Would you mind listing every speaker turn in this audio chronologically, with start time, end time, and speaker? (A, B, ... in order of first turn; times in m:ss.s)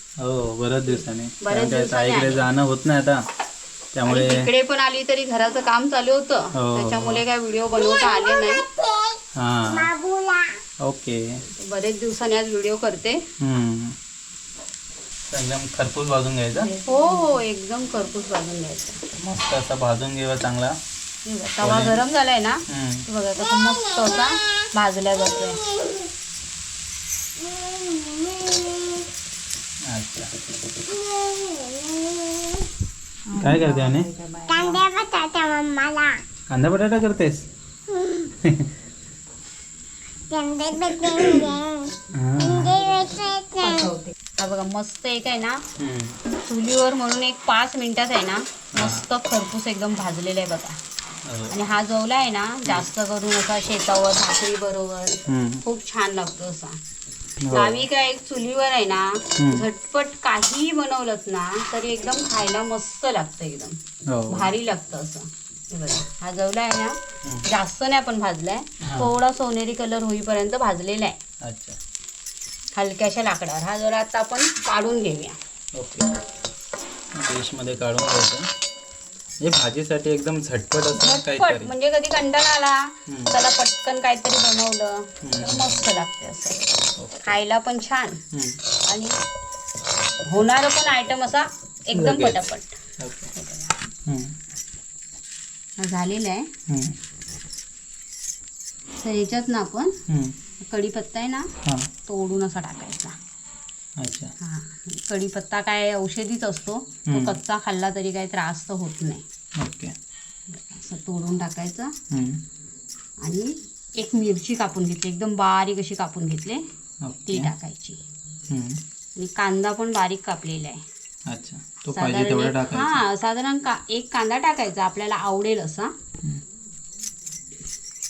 0:00.2-0:03.3 A
0:01.4-0:02.5 B
0:03.9-0:04.5 A
0:04.1-0:08.6 B
0:06.5-0:07.2 A
0:07.8-0:10.6 C
0:09.4-0:09.9 A
0:10.8-0:11.4 A
0:11.6-0:13.2 B
0:13.4-0:14.0 A
0:15.3-0:16.7 A
0:16.6-0:19.0 B
0:19.2-0:20.8 A
0:21.2-0:25.6 B
0:21.6-0:22.0 A
0:22.7-0:23.1 A
0:25.6-0:26.1 C
0:27.4-0:29.1 C
0:29.9-0:30.3 A
0:30.9-0:32.7 C
0:33.3-0:34.8 B
0:33.3-0:34.1 A
0:34.5-0:36.2 C
0:36.5-0:37.5 A
0:38.2-0:38.7 A
0:40.3-0:43.9 C
0:42.1-0:42.9 A
0:43.6-0:45.6 B
0:45.8-0:46.2 A
0:46.3-0:50.8 B
0:48.7-0:49.1 A
0:51.2-0:51.6 A
0:51.5-0:56.8 B
0:55.3-0:55.6 A
0:57.4-0:57.8 A
0:57.5-1:03.8 B
0:59.4-0:59.7 A
1:04.1-1:04.5 A
1:04.3-1:11.2 B
1:07.2-1:07.5 A
1:08.8-1:09.2 A
1:11.4-1:11.8 A
1:12.8-1:15.4 B
1:15.8-1:16.1 A
1:17.1-1:18.5 A
1:19.4-1:21.7 A
1:20.9-1:28.2 B
1:23.1-1:23.4 A
1:25.2-1:25.8 A
1:27.0-1:27.4 A
1:28.3-1:28.6 A
1:28.9-1:29.1 B
1:30.3-1:32.7 B
1:31.9-1:32.4 A
1:33.0-1:33.3 A
1:33.3-1:33.8 B
1:34.1-1:34.3 A
1:35.8-1:36.5 B
1:36.7-1:37.0 A
1:39.0-1:40.0 B
1:40.1-1:40.4 A
1:40.6-1:41.5 B
1:41.6-1:41.9 A
1:42.1-1:43.2 B
1:44.0-1:44.3 A
1:44.4-1:49.2 B
1:47.1-1:47.4 A
1:49.6-1:50.0 A
1:50.5-1:52.0 B
1:52.1-1:52.4 A
1:53.2-1:56.6 B
1:57.0-1:57.5 A
1:57.3-1:58.0 B
1:58.5-1:58.8 A
1:59.2-2:00.8 B
2:01.3-2:03.0 A
2:01.9-2:05.9 B